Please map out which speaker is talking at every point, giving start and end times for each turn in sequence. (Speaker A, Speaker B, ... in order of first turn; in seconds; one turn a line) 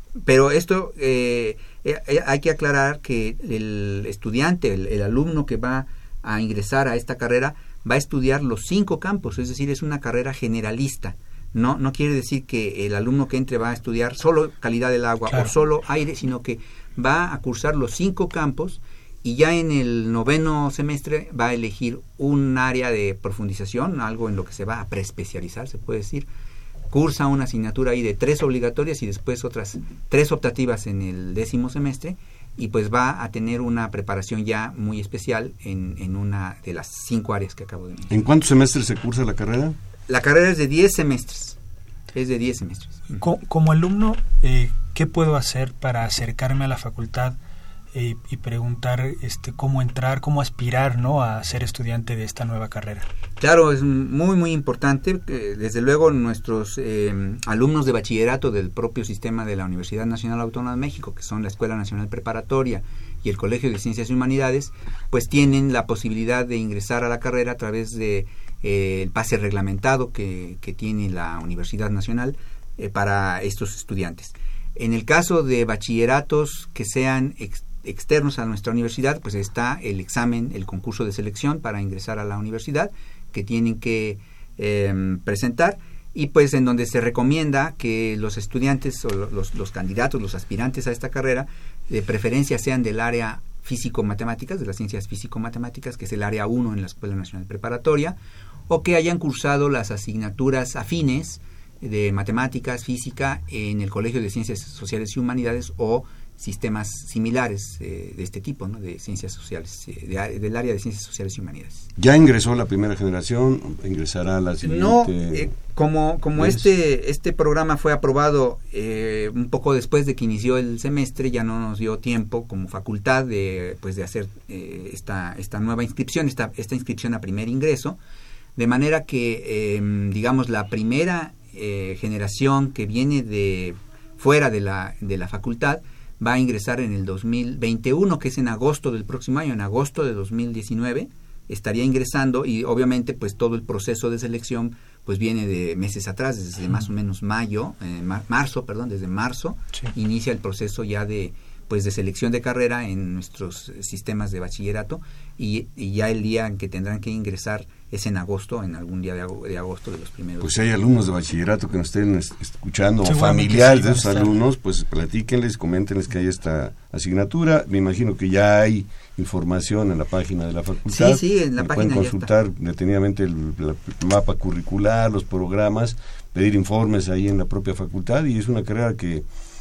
Speaker A: 0.2-26.3
Speaker A: 26.9-38.2
Speaker B: 38.1-39.8
Speaker A: 40.1-41.6
Speaker A: 42.1-43.2
Speaker C: 43.2-47.4
Speaker C: 47.9-53.0
Speaker A: 53.4-98.2
Speaker A: 98.7-111.9
Speaker B: 112.0-115.5
Speaker A: 114.6-128.0
Speaker B: 116.3-116.6
Speaker A: 128.6-160.6
Speaker B: 160.4-179.3
Speaker C: 163.0-164.3
Speaker A: 170.9-172.3